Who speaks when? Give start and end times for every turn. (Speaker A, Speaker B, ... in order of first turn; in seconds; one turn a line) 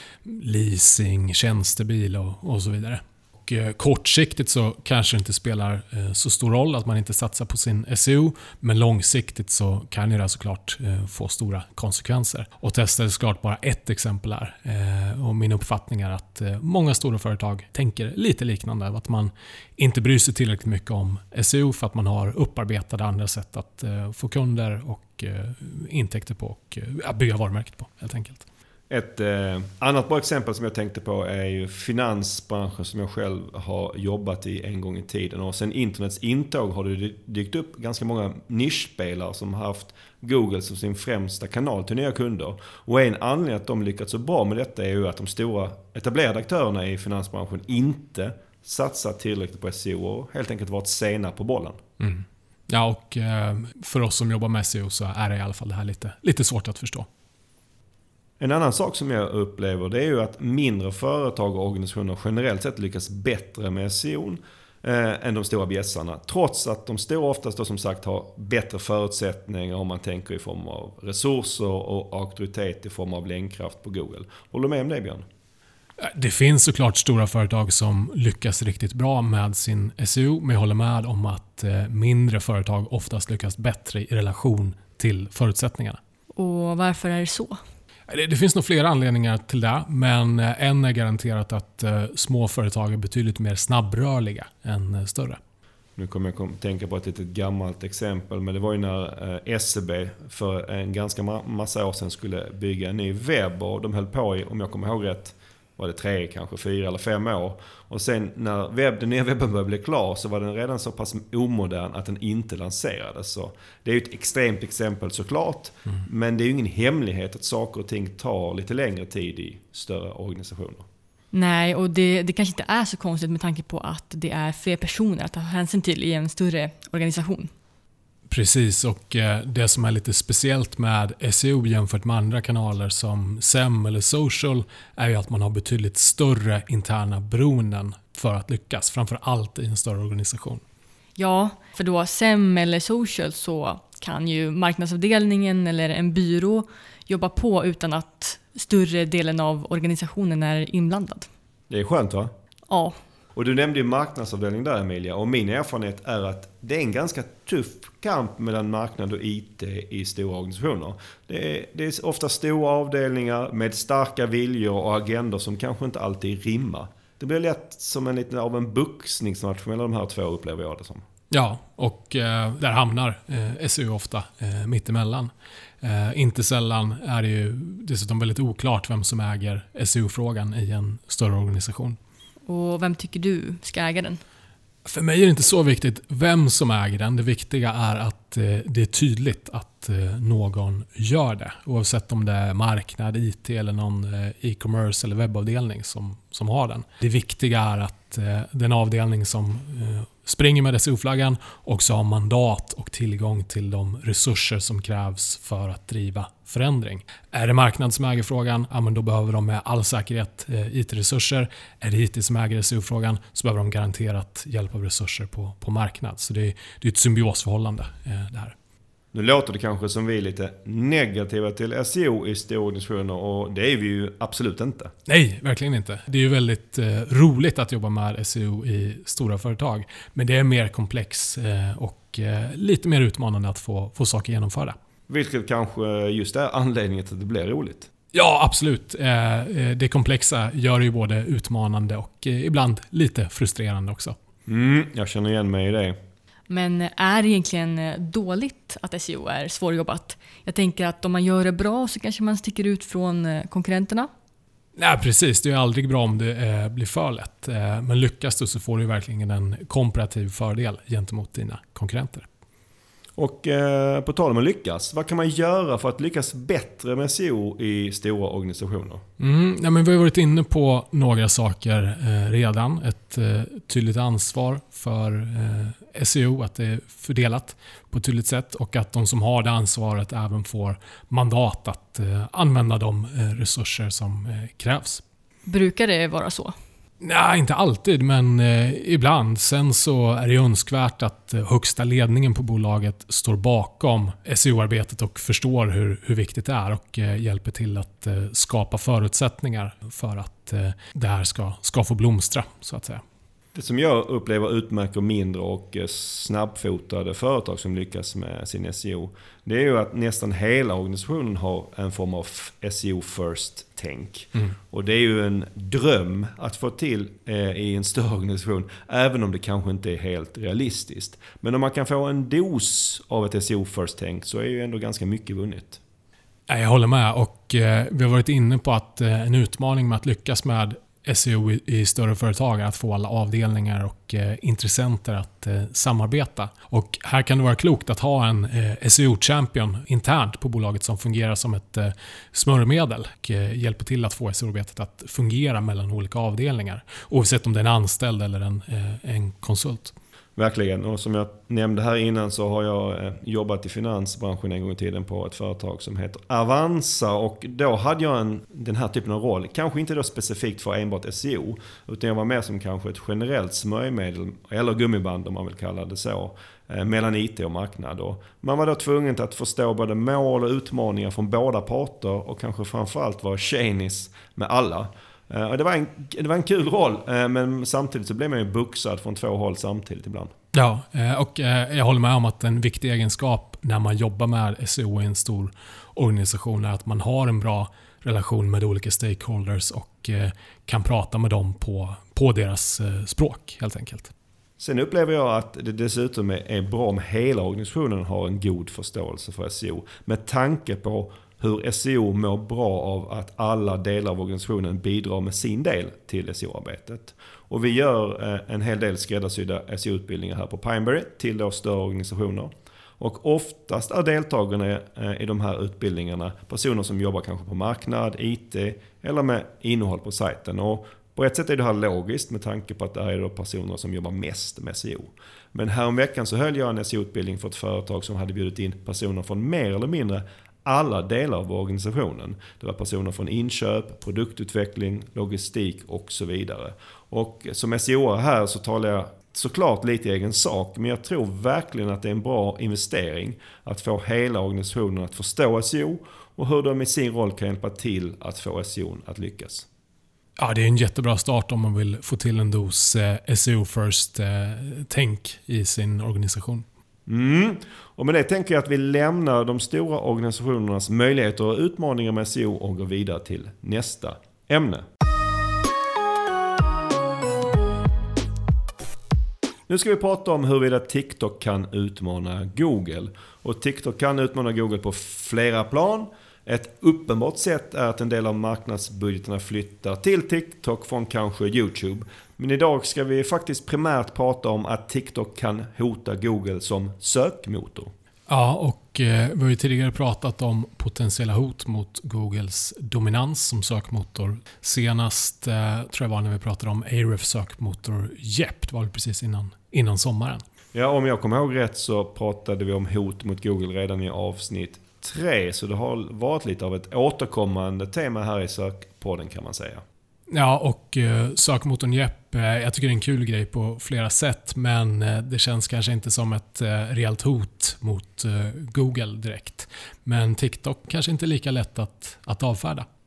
Speaker A: 0.2-28.4
Speaker B: 28.9-51.8
Speaker A: 52.0-57.1
Speaker B: 58.4-75.2
Speaker A: 76.0-86.0
Speaker C: 86.3-87.6
Speaker A: 88.1-95.4
Speaker B: 96.0-120.8
Speaker C: 121.3-127.5
Speaker A: 128.3-140.6
Speaker C: 141.2-151.3
Speaker B: 151.7-152.3
Speaker C: 152.7-152.9
Speaker B: 153.3-171.0
Speaker A: 171.3-182.0
Speaker C: 182.4-184.2
Speaker A: 184.8-218.5
Speaker B: 219.1-224.9
Speaker A: 225.1-234.8
Speaker B: 235.1-237.9
Speaker A: 238.1-244.2
Speaker B: 244.5-246.0
Speaker C: 246.5-254.1
Speaker A: 254.8-262.3
Speaker B: 263.2-269.0
Speaker A: 269.2-285.0
Speaker C: 285.5-286.5
Speaker A: 287.0-303.0
Speaker B: 303.5-325.8
Speaker A: 326.5-349.9
Speaker B: 350.4-380.3
Speaker A: 380.5-394.1
Speaker B: 394.6-449.7
Speaker A: 450.4-456.6
Speaker B: 457.1-464.9
Speaker B: 469.7-487.9
Speaker A: 488.3-500.4
Speaker B: 500.7-509.8
Speaker A: 510.3-522.9